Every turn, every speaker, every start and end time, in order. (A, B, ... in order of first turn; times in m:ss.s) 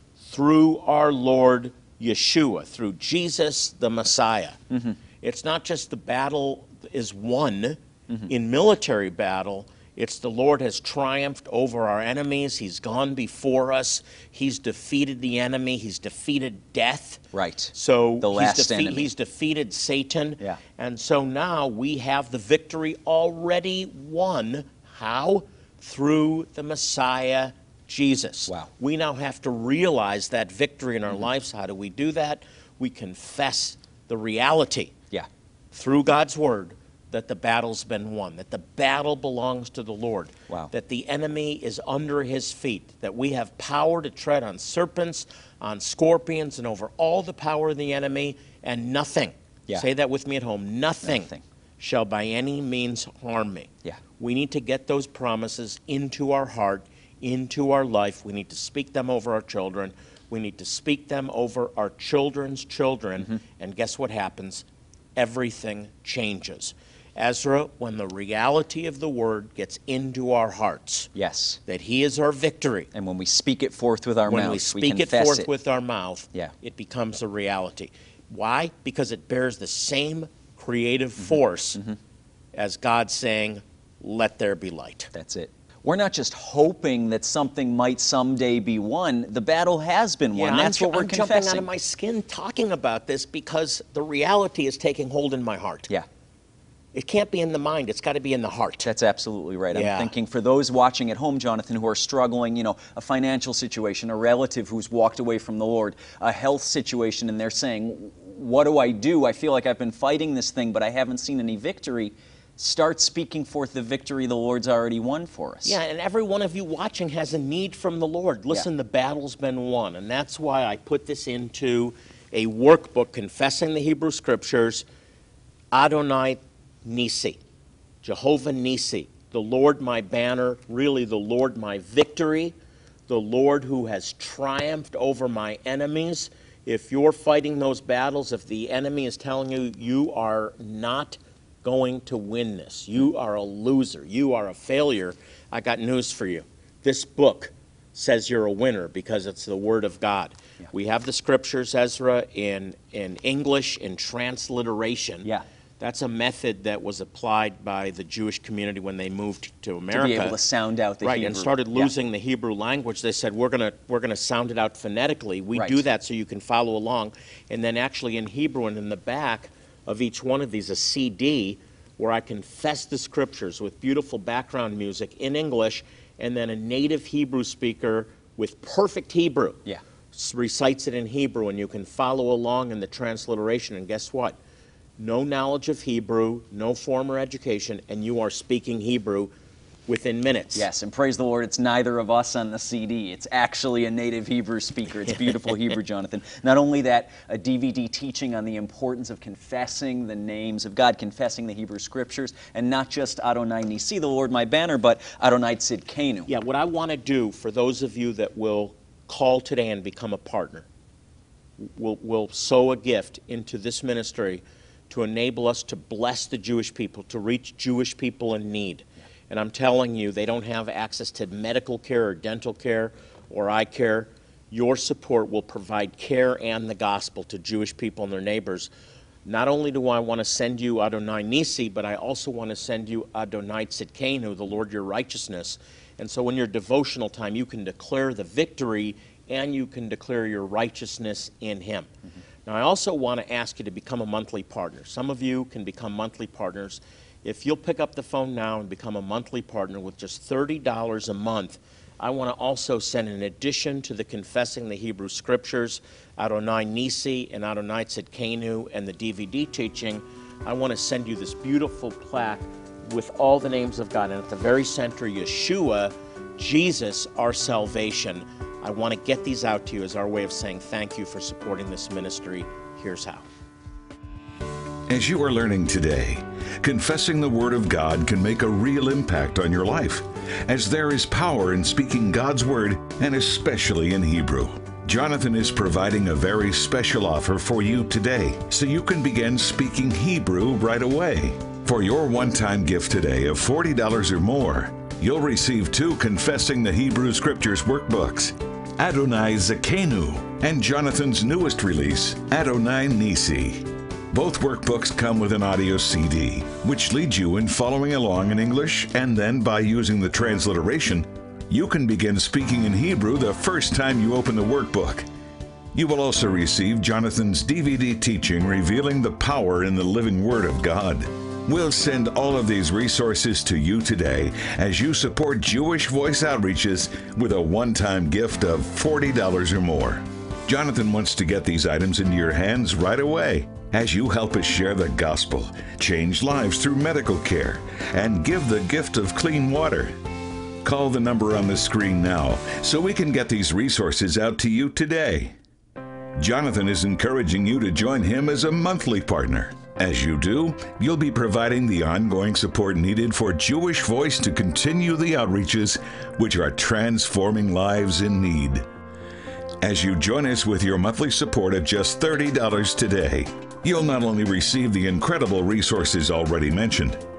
0:00.2-0:04.6 A
0:05.2-0:35.0 A
0:17.3-0:19.1 B
0:35.7-1:04.7 A
0:51.0-0:51.4 B
1:05.2-1:11.1 A
1:11.2-1:11.6 B
1:11.7-1:12.9 A
1:12.9-1:15.5 B
1:14.3-1:21.8 A
1:22.6-1:25.1 A
1:25.1-1:31.7 B
1:30.3-1:35.9 A
1:36.9-1:38.9 A
1:38.8-1:55.8 B
1:39.7-1:40.1 A
1:55.6-2:04.8 A
2:05.7-2:07.4 A
2:08.0-2:12.6 A
2:13.1-2:35.3 A
2:35.8-2:40.4 A
2:39.9-2:41.9 B
2:41.0-3:04.4 A
2:45.6-2:45.8 B
3:05.0-3:09.3 A
3:09.9-3:10.7 A
3:10.6-3:26.3 B
3:26.3-3:30.7 A
3:31.6-3:48.7 A
3:49.2-4:01.9 A
4:02.4-4:33.3 A
4:34.9-5:15.1 C
5:15.7-5:40.0 C
5:40.6-5:45.4 C
5:46.2-5:58.7 C
5:59.6-6:07.0 C